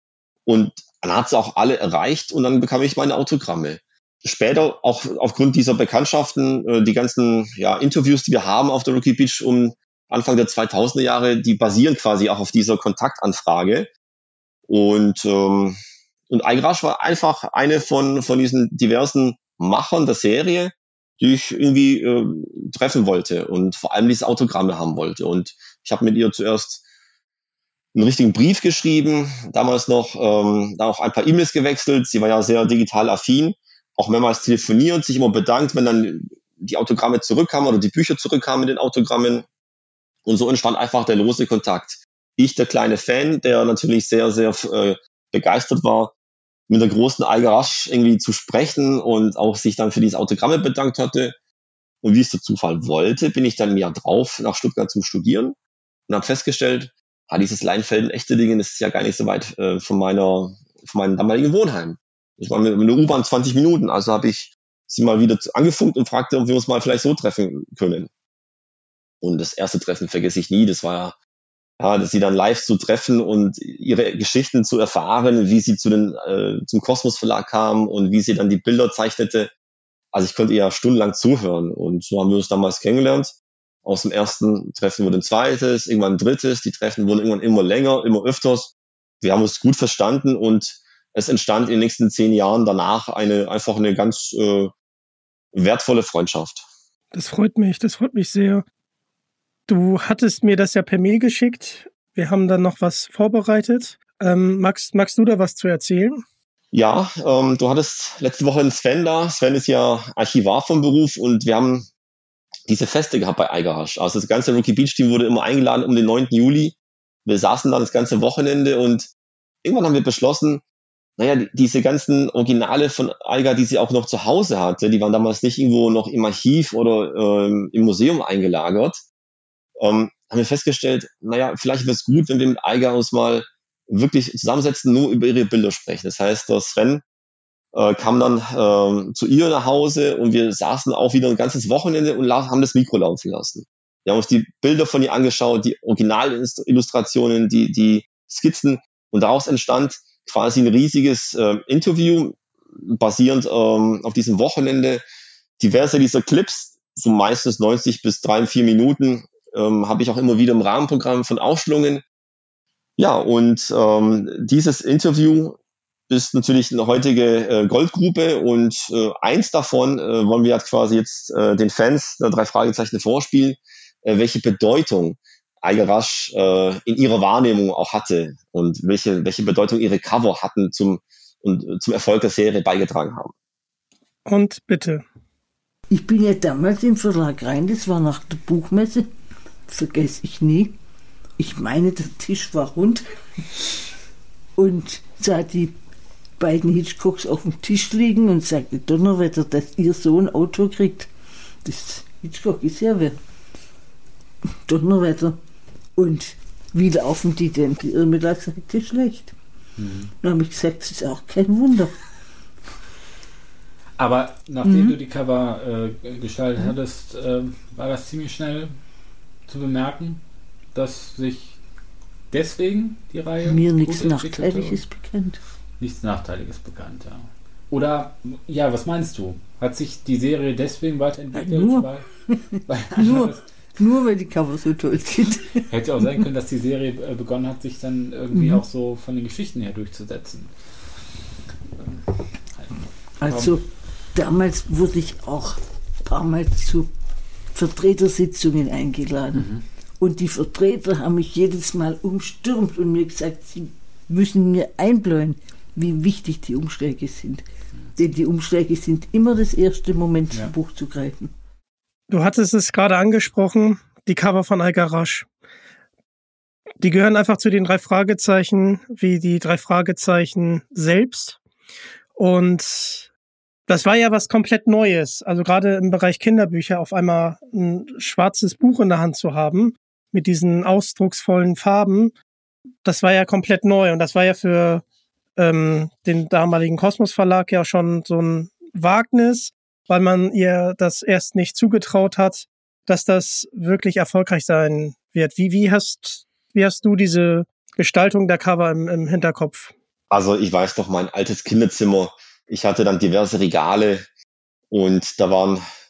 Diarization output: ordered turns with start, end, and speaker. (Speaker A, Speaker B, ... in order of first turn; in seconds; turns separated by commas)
Speaker A: 0.5-13.9, Speaker A: 14.7-26.8, Speaker A: 27.9-39.5, Speaker A: 40.3-46.1, Speaker A: 46.7-51.4, Speaker A: 52.0-55.6, Speaker A: 56.1-68.1, Speaker A: 69.2-71.2, Speaker A: 71.8-79.5, Speaker A: 80.1-94.7, Speaker A: 95.5-96.7, Speaker B: 97.1-98.7, Speaker B: 99.7-106.2, Speaker A: 106.7-111.9, Speaker A: 112.7-119.1, Speaker A: 119.6-120.6, Speaker A: 121.2-129.0, Speaker A: 129.8-137.0, Speaker A: 137.7-155.0, Speaker A: 155.6-162.0, Speaker A: 163.0-165.6, Speaker A: 166.1-183.3, Speaker B: 184.2-185.1, Speaker C: 185.9-189.1, Speaker C: 189.7-190.8, Speaker C: 191.4-193.1, Speaker C: 194.6-195.8, Speaker C: 196.4-201.1, Speaker C: 201.6-203.2, Speaker C: 204.7-205.4, Speaker C: 206.0-209.3, Speaker D: 209.8-210.1, Speaker C: 210.2-211.9, Speaker D: 214.0-221.6, Speaker C: 214.6-215.0, Speaker D: 222.3-224.9, Speaker C: 223.4-225.4, Speaker D: 225.8-233.4, Speaker C: 231.3-235.6, Speaker D: 235.7-241.0, Speaker C: 238.3-238.6, Speaker D: 242.5-243.6, Speaker C: 243.2-246.9, Speaker C: 247.5-261.3, Speaker D: 249.3-249.7, Speaker B: 262.1-265.3, Speaker B: 266.8-271.4, Speaker B: 272.2-273.1, Speaker B: 273.7-282.1, Speaker B: 282.8-284.8, Speaker B: 285.4-299.7, Speaker A: 300.1-304.1, Speaker A: 304.7-305.6